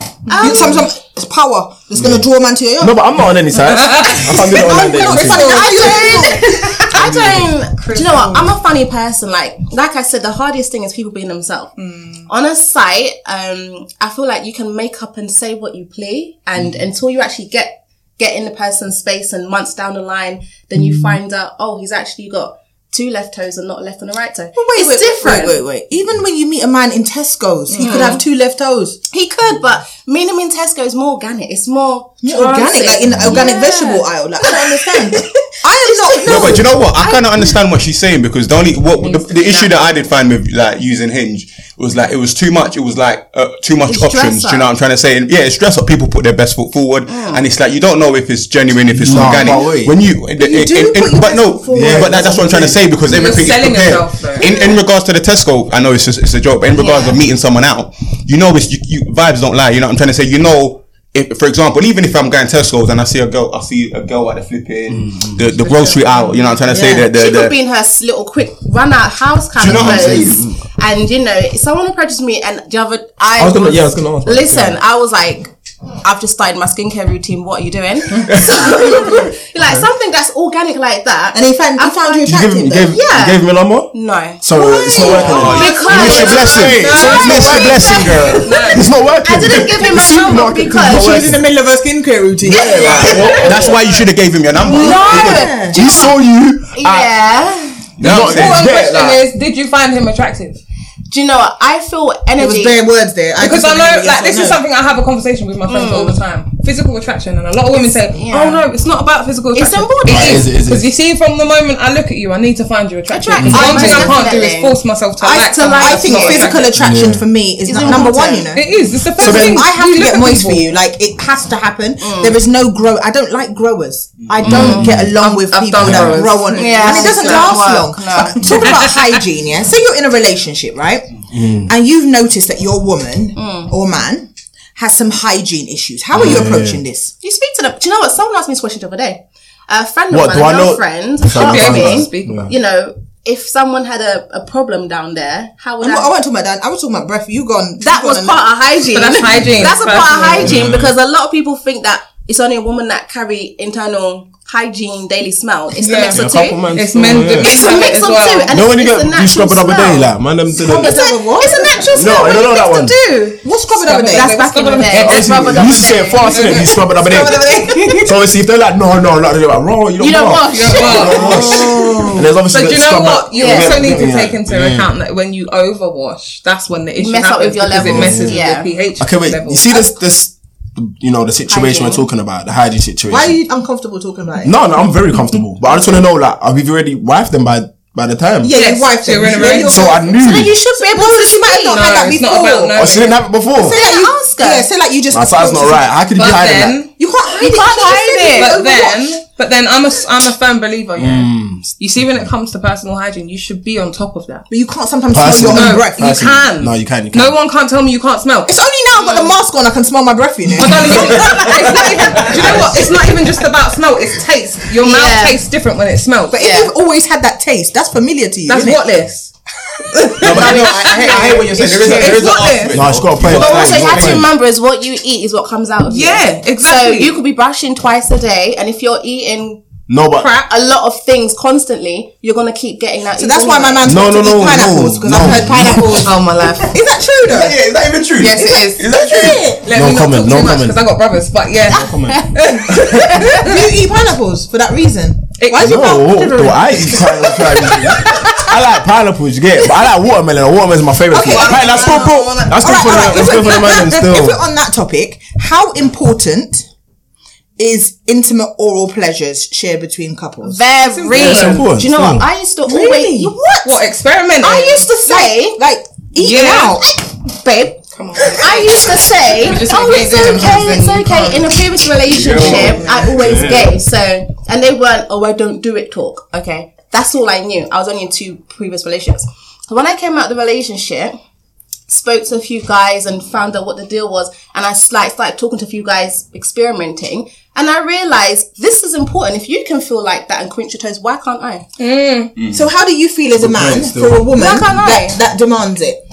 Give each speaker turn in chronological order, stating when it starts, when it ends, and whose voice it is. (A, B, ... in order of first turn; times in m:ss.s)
0:00.3-0:00.9 A
0:00.3-0:03.0 B
0:00.4-0:00.8 C
0:02.8-0:05.6 D
0:03.7-0:08.5 C
0:04.4-0:06.7 B
0:05.3-0:11.7 A
0:07.0-0:07.4 D
0:11.8-0:12.3 C
0:12.3-0:25.6 A
0:24.6-0:29.0 B
0:27.7-0:28.2 C
0:27.8-0:28.2 A
0:29.1-0:37.5 A
0:32.2-0:36.8 B
0:36.2-1:07.5 E
0:39.0-0:39.9 A
0:43.8-0:44.7 A
0:47.1-0:47.5 A
0:48.9-0:50.0 D
0:50.4-0:52.8 B
0:51.7-0:52.8 D
0:53.0-0:54.5 C
0:54.4-0:54.7 B
0:56.8-0:57.2 A
1:04.9-1:05.5 D
1:05.6-1:06.4 A
1:06.7-1:07.1 B
1:07.1-1:15.5 A
1:09.6-1:10.6 D
1:09.6-1:10.4 E
1:13.4-1:14.8 D
1:16.0-1:22.3 A
1:21.3-1:23.0 B
1:22.3-1:28.0 D
1:22.8-1:31.3 A
1:25.0-1:28.5 E
1:25.3-1:28.9 C
1:28.7-1:31.5 D
1:30.9-1:33.3 B
1:32.4-1:33.8 D
1:32.5-1:34.0 A
1:32.8-1:35.3 E
1:34.5-1:36.2 A
1:34.6-1:35.8 B
1:35.1-1:37.1 D
1:36.7-1:37.8 A
1:38.0-1:38.8 E
1:38.0-1:39.2 D
1:38.1-1:40.6 C
1:41.1-1:42.8 A
1:42.4-1:44.6 B
1:43.4-1:56.8 C
1:45.7-1:46.2 A
1:48.1-1:48.7 A
1:49.5-1:50.5 A
1:50.0-1:50.9 D
1:53.1-1:54.8 A
1:53.4-1:53.7 D
1:53.5-1:54.3 B
1:55.2-2:17.1 B
1:55.3-1:56.7 A
1:56.8-1:58.1 D
1:57.6-1:58.5 A
1:58.5-2:00.8 C
1:59.2-1:59.7 D
2:02.0-2:02.4 A
2:04.4-2:05.1 D
2:04.5-2:04.9 A
2:05.2-2:07.7 C
2:05.8-2:06.3 D
2:06.5-2:08.8 A
2:08.4-2:09.2 C
2:11.3-2:11.7 D
2:13.4-2:13.7 A
2:16.1-2:16.8 D
2:17.2-2:26.1 A
2:20.1-2:22.5 D
2:21.3-2:22.5 C
2:25.8-2:28.5 B
2:27.8-2:43.4 A
2:28.9-2:30.6 C
2:30.4-2:30.9 D
2:35.8-2:38.6 C
2:36.1-2:37.7 D
2:38.5-2:41.0 D
2:40.6-2:42.4 B
2:41.9-2:43.0 D
2:43.4-2:44.3 B
2:43.7-2:48.1 C
2:44.1-2:48.1 A
2:44.9-2:47.4 D
2:48.0-2:54.9 D
2:50.0-2:52.1 A
2:50.4-2:51.9 C
2:51.2-2:52.3 B
2:52.5-2:59.8 C
2:53.4-2:54.0 A
2:57.0-2:58.7 A
2:57.8-2:58.5 D
2:59.0-3:03.4 D
3:01.5-3:02.1 A
3:03.1-3:04.5 B
3:04.4-3:08.5 D
3:08.4-3:12.9 B
3:08.5-3:10.0 C
3:09.4-3:10.5 D
3:10.1-3:12.0 A
3:11.7-3:13.2 C
3:12.7-3:13.8 D
3:13.5-3:15.9 B
3:13.7-3:14.7 A
3:15.1-3:16.8 D
3:16.2-3:16.9 C
3:17.0-3:19.1 B
3:17.3-3:18.6 A
3:18.2-3:24.5 C
3:21.0-3:21.8 D
3:24.5-3:26.2 B
3:25.1-3:27.4 D
3:25.3-3:28.5 C
3:28.5-3:33.2 B
3:29.0-3:29.4 A
3:30.6-3:36.4 C
3:31.1-3:31.5 E
3:31.8-3:32.7 A
3:34.8-3:35.4 A
3:36.3-3:38.8 B
3:36.4-3:36.7 A
3:38.5-3:39.3 C
3:39.9-3:42.8 C
3:40.2-3:44.3 E
3:40.3-3:42.3 A
3:41.9-3:42.2 B
3:42.7-3:44.3 D
3:43.2-3:49.6 A
3:45.9-3:47.2 C
3:49.9-3:50.3 D
3:50.1-3:53.9 A
3:53.2-3:57.6 B
3:53.8-3:56.1 D
3:56.0-3:56.7 A
3:56.0-3:56.6 C
3:57.3-3:59.5 E
3:58.2-3:58.8 A
3:58.2-3:58.8 C
3:58.9-3:59.6 B
3:59.6-4:03.7 C
3:59.7-4:00.8 D
4:01.7-4:03.0 D
4:01.7-4:03.4 A
4:03.1-4:07.8 B
4:05.4-4:08.5 C
4:05.6-4:14.4 D
4:11.1-4:14.1 C
4:11.2-4:12.0 B
4:11.6-4:12.0 A
4:12.6-4:16.7 B
4:17.6-4:20.6 B
4:20.4-4:23.4 A
4:20.8-4:21.7 C
4:21.1-4:22.3 D
4:22.7-4:23.8 B
4:23.6-4:24.9 C
4:24.4-4:25.6 A
4:25.0-4:26.9 B
4:26.2-4:26.8 C
4:26.8-4:41.2 A
4:27.9-4:33.4 C
4:32.2-4:33.8 D
4:41.9-4:51.7 A
4:51.8-4:52.4 C
4:52.4-4:56.0 B
4:53.4-4:54.3 D
4:54.4-4:55.2 A